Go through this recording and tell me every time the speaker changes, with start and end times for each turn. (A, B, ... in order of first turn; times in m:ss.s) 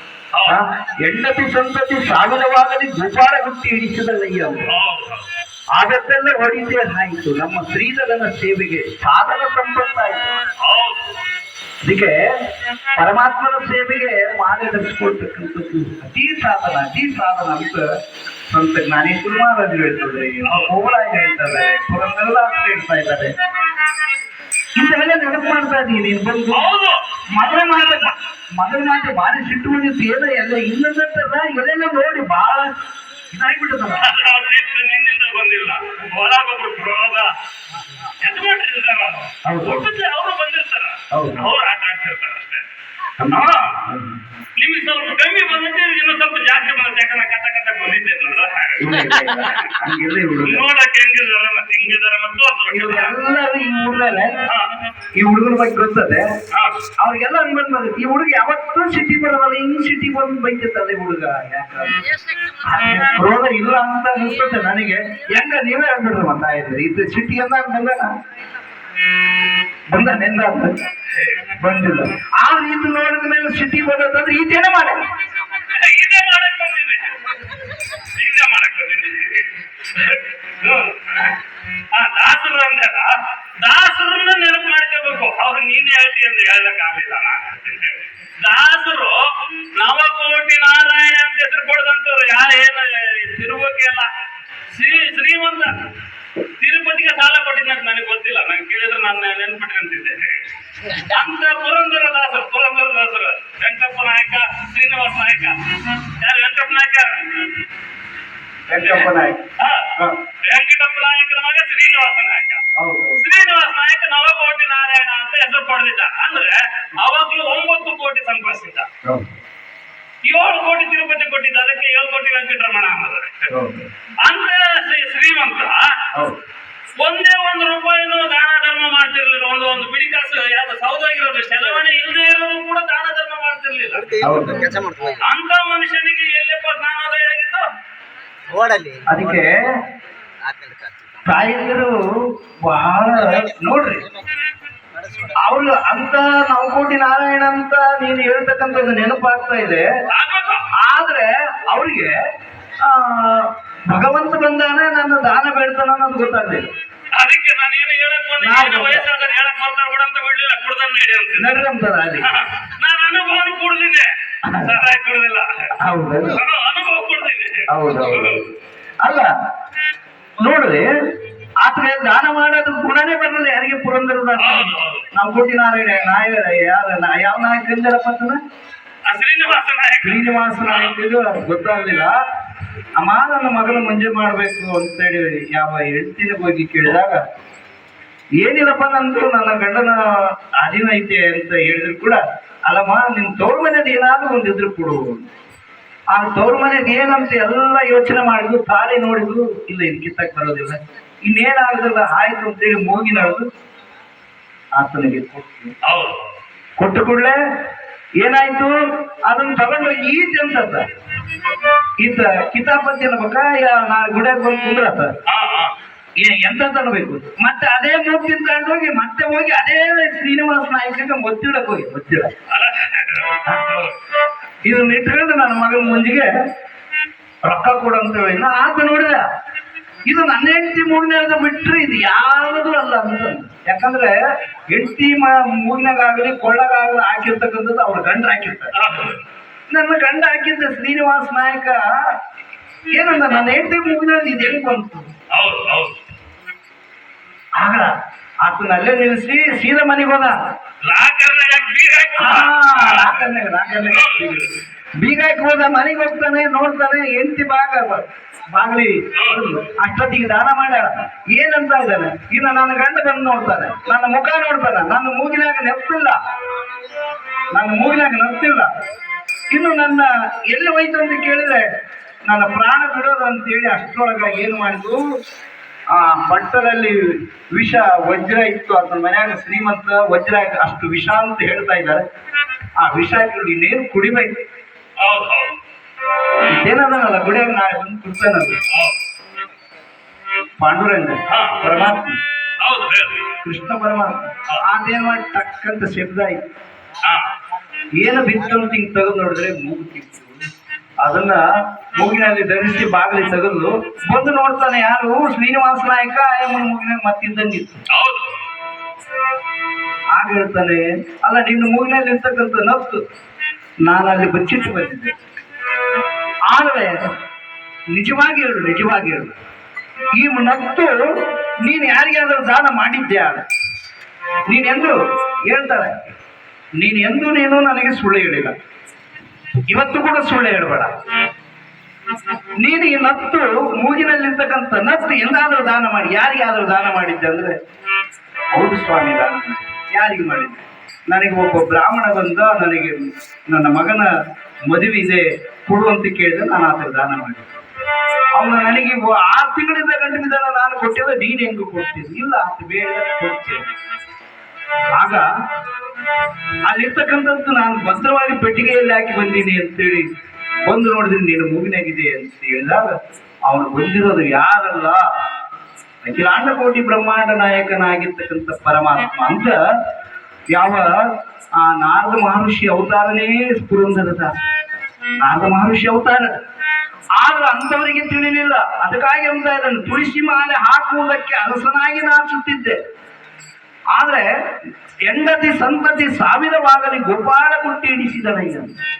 0:00.3-0:00.6 A
0:00.5-0:04.7 B
0:04.6-0:05.3 A
0:05.7-0:10.4 B
0:10.6-0:11.2 A
0:11.8-0:12.2 B
0:13.0-0:17.9 B
0:18.5-0:23.3 B
0:20.5-0:20.7 A
0:24.8-0:26.7 B
0:26.5-0:28.1 A
0:27.3-0:32.7 B
0:33.3-0:34.2 B
0:34.0-0:37.3 A
0:38.2-0:42.6 A
0:39.4-0:39.8 B
0:41.1-0:41.5 B
0:43.2-0:44.2 B
0:43.3-0:43.9 A
0:44.6-0:49.6 A
0:48.8-0:50.6 B
0:50.4-0:53.2 A
0:52.7-0:54.3 B
0:55.1-0:56.3 B
0:56.5-0:56.8 A
0:57.0-1:02.1 B
1:02.6-1:08.1 B
1:09.9-1:10.7 B
1:11.1-1:11.5 A
1:11.5-1:15.0 B
1:15.7-1:17.3 A
1:18.0-1:21.4 A
1:21.9-1:34.1 A
1:34.7-1:35.8 A
1:36.6-1:47.6 A
1:48.7-1:50.2 B
1:48.8-1:49.1 A
1:49.6-1:52.6 A
1:52.8-1:53.2 B
1:53.2-1:58.9 A
1:59.0-1:59.3 B
2:00.2-2:03.5 A
2:03.5-2:03.9 B
2:04.2-2:06.0 A
2:07.0-2:14.2 A
2:14.0-2:15.2 C
2:14.2-2:14.8 B
2:15.2-2:17.6 A
2:18.5-2:19.2 C
2:19.1-2:19.6 B
2:20.4-2:21.2 C
2:21.2-2:22.0 B
2:22.6-2:24.1 B
2:23.2-2:24.2 C
2:24.9-2:25.4 C
2:25.4-2:29.8 B
2:30.1-2:30.6 A
2:30.8-2:32.1 B
2:32.8-2:36.6 B
2:37.1-2:41.6 A
2:38.4-2:39.1 B
2:41.4-2:42.3 B
2:42.2-2:45.7 A
2:44.4-2:44.8 B
2:45.8-2:46.4 B
2:46.3-2:48.4 A
2:47.7-2:48.3 B
2:49.0-2:49.3 B
2:50.4-2:50.9 B
2:51.6-2:58.4 B
2:54.4-2:55.1 A
2:59.0-3:01.0 A
3:00.0-3:02.1 B
3:03.0-3:07.2 B
3:08.4-3:15.3 B
3:16.1-3:23.5 B
3:24.8-3:25.7 B
3:25.8-3:26.2 A
3:26.8-3:27.4 B
3:28.2-3:30.8 B
3:32.0-3:35.2 B
3:35.3-3:35.7 A
3:36.2-3:42.3 B
3:42.5-3:44.0 A
3:44.6-3:46.3 B
3:47.4-3:49.2 B
3:50.1-3:54.1 B
3:54.7-3:58.7 B
3:58.7-3:59.2 A
3:59.7-4:01.8 B
4:02.9-4:05.1 B
4:05.3-4:06.0 A
4:07.6-4:07.9 B
4:08.4-4:10.4 B
4:10.8-4:13.3 A
4:12.2-4:14.4 B
4:13.8-4:14.5 A
4:15.0-4:26.2 B
4:19.1-4:19.4 A
4:27.5-4:28.7 B
4:29.5-4:31.6 B
4:32.2-4:35.0 B
4:35.9-4:42.0 B
4:42.8-4:44.4 B
4:45.0-4:45.5 A
4:46.5-4:48.6 B
4:48.7-4:49.0 A
4:50.6-4:52.2 B
4:51.3-4:51.6 A
4:52.6-4:53.3 A
4:53.4-4:56.4 B
4:58.0-5:00.4 B
5:01.0-5:01.4 B
5:01.9-5:07.8 B
5:07.9-5:08.3 A
5:10.2-5:13.0 B
5:13.8-5:15.1 B
5:16.5-5:16.9 B
5:17.9-5:19.4 B
5:20.2-5:21.0 B
5:21.6-5:23.4 B
5:24.5-5:25.0 B
5:25.5-5:26.0 B
5:26.8-5:28.6 B
5:29.7-5:30.9 B
5:32.6-5:37.5 B
5:38.5-5:44.1 B
5:44.6-5:47.5 B
5:48.3-5:53.6 B
5:54.9-5:55.2 B
5:56.6-6:00.1 B
6:00.6-6:05.0 B
6:06.0-6:09.6 B
6:10.5-6:14.5 B
6:15.2-6:16.3 B
6:17.2-6:22.8 B
6:23.9-6:24.2 B
6:25.1-6:28.7 B